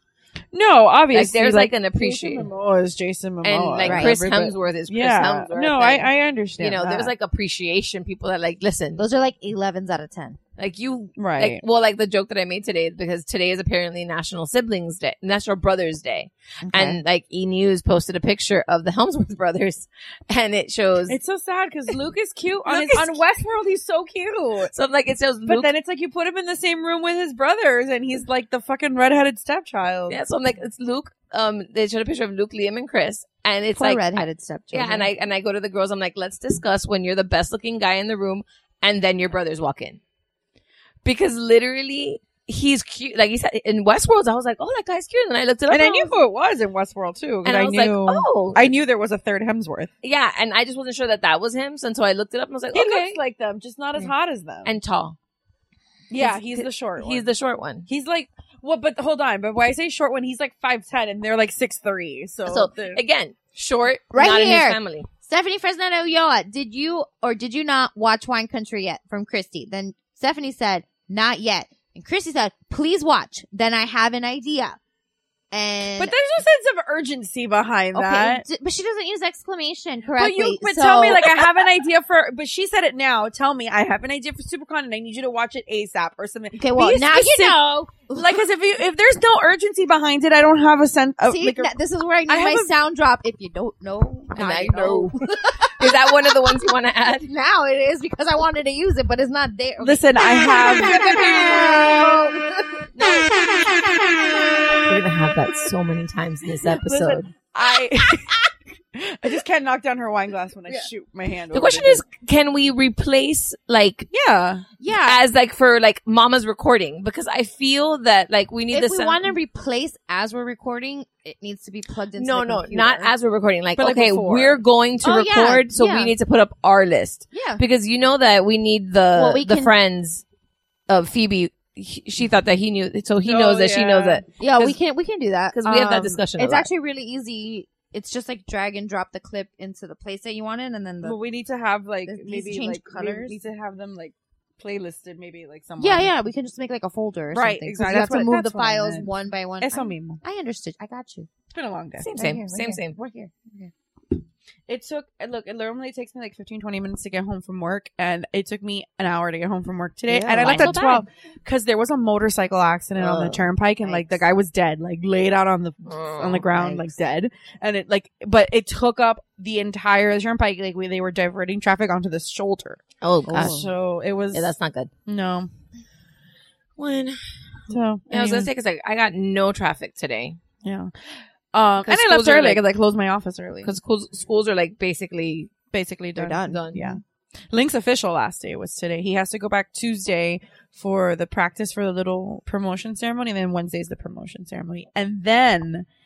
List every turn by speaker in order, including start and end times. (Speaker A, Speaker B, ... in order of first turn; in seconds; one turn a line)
Speaker A: 0.5-7.1
Speaker B: 1.1-2.5
Speaker B: 3.4-9.0
Speaker C: 3.8-4.1
Speaker C: 9.0-10.4
Speaker B: 10.6-21.2
Speaker A: 11.2-11.6
Speaker C: 16.6-17.0
Speaker A: 21.1-24.7
Speaker B: 22.6-23.2
Speaker B: 24.7-25.7
Speaker A: 25.4-30.2
Speaker B: 30.1-40.0
Speaker C: 33.8-35.1
Speaker B: 41.0-46.1
Speaker A: 45.7-49.9
Speaker B: 47.4-48.8
Speaker B: 50.0-53.2
Speaker A: 52.7-54.7
Speaker B: 54.6-55.1
Speaker A: 56.1-57.2
Speaker B: 56.2-57.9
Speaker A: 57.9-63.0
Speaker B: 62.4-65.1
Speaker C: 64.1-74.8
Speaker C: 75.5-76.1
Speaker A: 76.0-78.4
Speaker C: 77.9-81.3
Speaker A: 80.1-91.7
Speaker C: 86.5-88.4
Speaker C: 91.2-96.0
Speaker A: 92.3-92.7
Speaker B: 94.4-95.1
Speaker B: 95.8-97.3
Speaker C: 97.3-102.8
Speaker A: 99.8-102.0
Speaker A: 103.0-103.2
Speaker B: 104.9-107.3
Speaker A: 106.6-108.3
Speaker A: 108.9-112.0
Speaker B: 111.5-114.1
Speaker A: 114.1-114.7
Speaker C: 114.8-115.2
Speaker B: 115.0-119.3
Speaker C: 118.7-123.1
Speaker B: 122.2-130.2
Speaker A: 123.8-124.6
Speaker C: 125.0-126.1
Speaker C: 127.3-127.6
Speaker C: 129.1-129.7
Speaker B: 130.9-134.8
Speaker A: 133.2-134.2
Speaker C: 134.4-141.2
Speaker B: 135.5-136.7
Speaker A: 141.0-146.1
Speaker C: 142.1-143.4
Speaker C: 145.8-151.3
Speaker A: 147.3-149.1
Speaker A: 149.6-150.2
Speaker A: 151.5-152.1
Speaker B: 152.0-153.0
Speaker C: 152.1-153.7
Speaker A: 154.7-174.5
Speaker B: 160.1-161.0
Speaker C: 160.1-161.0
Speaker B: 163.0-163.4
Speaker C: 163.8-164.2
Speaker B: 165.8-166.5
Speaker C: 166.5-166.9
Speaker B: 173.0-173.6
Speaker C: 173.3-173.7
Speaker B: 174.3-174.9
Speaker A: 175.1-175.5
Speaker B: 176.8-177.2
Speaker A: 177.7-178.5
Speaker B: 178.1-180.4
Speaker A: 180.6-180.9
Speaker A: 181.5-183.7
Speaker B: 181.8-182.6
Speaker B: 183.6-185.5
Speaker A: 185.7-187.0
Speaker C: 186.2-186.6
Speaker B: 186.4-187.0
Speaker A: 187.5-195.8